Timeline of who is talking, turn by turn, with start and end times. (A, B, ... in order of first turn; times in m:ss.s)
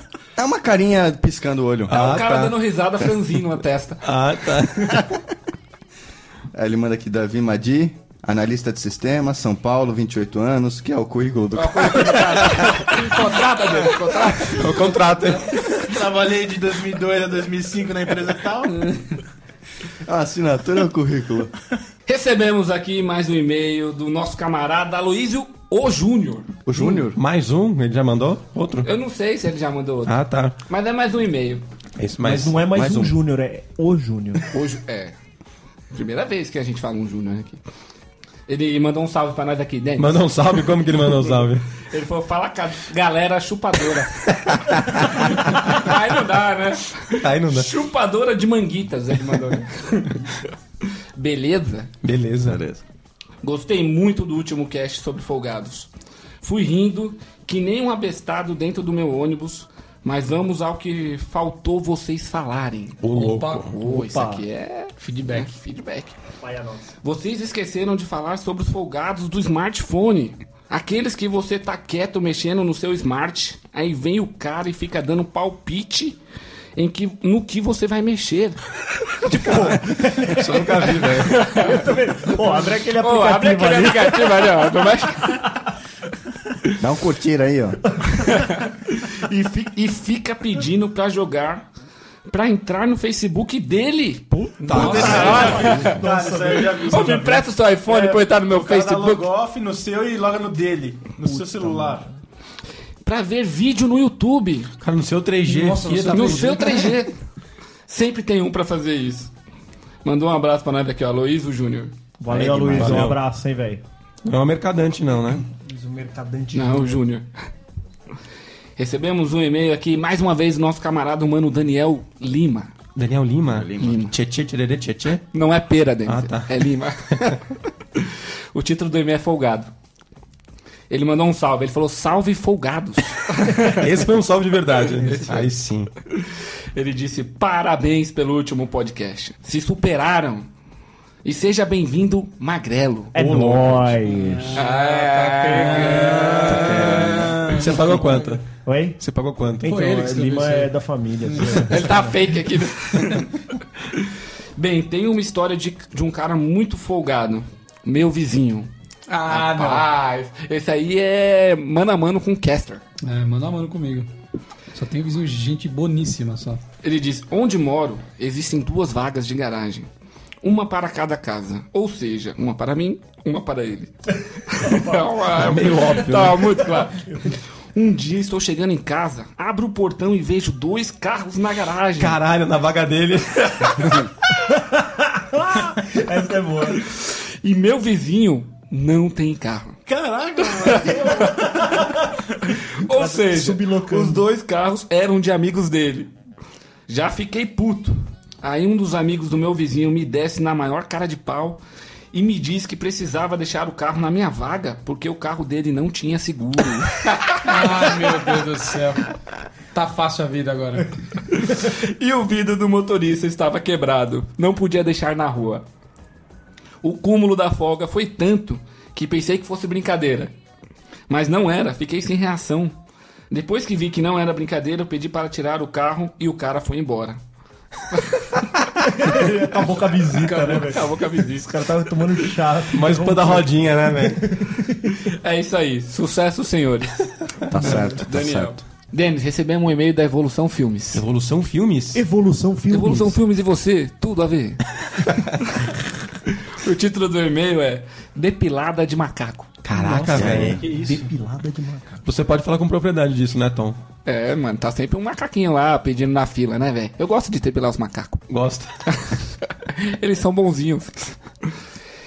0:00.4-0:02.0 A
0:01.9-0:02.6 B
0:01.9-0:04.0 C
0:04.0-0:05.0 B
0:06.5-0:12.5 A
0:11.6-0:14.9 C
0:14.4-0:15.9 B
0:15.8-0:18.8 D
0:20.0-0:21.5 A
0:22.1-0:26.6 C
0:26.6-0:27.2 A
0:27.1-0:28.9 B
0:28.8-0:31.6 C
0:30.1-0:30.6 B
0:32.0-0:33.1 B
0:32.2-0:34.4 E
0:34.5-0:35.1 C
0:35.9-0:37.6 C
0:38.5-0:40.3 C
0:40.0-0:41.7 B
0:41.8-0:50.3 C
0:44.7-0:45.0 B
0:47.2-0:47.7 B
0:51.1-0:51.9 C
0:52.0-0:52.6 B
0:52.4-0:52.8 A
0:53.4-0:55.9 C
0:56.4-1:03.1 C
1:03.0-1:03.7 B
1:03.1-1:03.6 F
1:03.6-1:06.2 C
1:03.8-1:04.4 E
1:05.0-1:05.5 F
1:06.4-1:06.9 E
1:07.0-1:16.2 C
1:16.8-1:18.6 C
1:19.2-1:24.6 E
1:20.2-1:21.4 B
1:21.2-1:21.9 C
1:22.4-1:25.4 C
1:26.8-1:27.8 A
1:28.0-1:28.5 E
1:28.3-1:28.6 C
1:29.2-1:29.7 E
1:29.6-1:31.6 C
1:32.3-1:36.0 C
1:34.3-1:36.0 B
1:34.6-1:35.4 F
1:34.7-1:37.0 D
1:34.7-1:37.5 E
1:36.6-1:39.3 C
1:37.9-1:42.1 D
1:41.2-1:41.6 E
1:43.0-1:44.7 C
1:44.8-1:46.9 B
1:45.4-1:46.9 F
1:46.1-1:47.1 C
1:47.9-1:49.3 C
1:50.0-1:51.9 C
1:52.2-1:53.8 E
1:52.3-1:53.2 B
1:52.3-1:53.0 A
1:54.2-1:55.4 B
1:55.6-1:57.0 E
1:56.5-1:57.3 C
1:58.8-2:02.7 C
2:02.9-2:05.2 B
2:03.5-2:04.0 A
2:03.8-2:04.1 C
2:05.3-2:07.4 C
2:06.1-2:06.5 B
2:08.0-2:09.7 C
2:10.9-2:13.9 C
2:13.8-2:15.9 B
2:14.9-2:15.5 C
2:16.1-2:20.5 C
2:21.2-2:23.1 C
2:23.1-2:24.6 E
2:23.1-2:24.0 B
2:24.1-2:28.4 F
2:24.6-2:27.7 C
2:25.7-2:28.4 B
2:28.6-2:29.0 E
2:29.0-2:29.7 B
2:29.6-2:32.3 E
2:29.6-2:30.7 F
2:31.3-2:31.7 F
2:31.6-2:33.3 C
2:33.9-2:38.7 C
2:39.1-2:39.9 F
2:39.2-2:42.8 C
2:43.0-2:44.1 F
2:44.7-2:46.6 F
2:46.8-2:49.9 C
2:50.4-2:57.0 C
2:54.6-2:55.3 E
2:55.4-2:56.4 B
2:56.7-2:57.4 E
2:57.7-3:02.2 C
3:02.0-3:04.0 B
3:04.5-3:06.9 E
3:06.8-3:09.8 C
3:09.9-3:10.9 D
3:10.4-3:11.4 C
3:10.7-3:12.2 E
3:12.5-3:16.1 C
3:12.9-3:14.2 E
3:16.9-3:21.6 C
3:22.1-3:27.8 C
3:27.4-3:29.0 F
3:29.7-3:30.9 F
3:31.3-3:35.6 C
3:36.8-3:40.3 C
3:41.1-3:42.7 C
3:43.3-3:47.2 C
3:47.9-3:48.4 C
3:48.8-3:55.0 E
3:50.2-3:51.5 C
3:52.7-3:54.3 B
3:55.0-3:57.1 C
3:57.5-3:58.6 A
3:57.6-4:01.0 C
3:57.6-3:57.9 B
4:00.9-4:02.0 B
4:01.9-4:03.2 E
4:02.7-4:04.6 C
4:06.3-4:09.6 C
4:09.6-4:10.7 B
4:09.7-4:12.0 E
4:10.1-4:10.6 A
4:12.0-4:13.8 B
4:14.1-4:18.3 C
4:18.3-4:18.7 B
4:18.9-4:21.5 C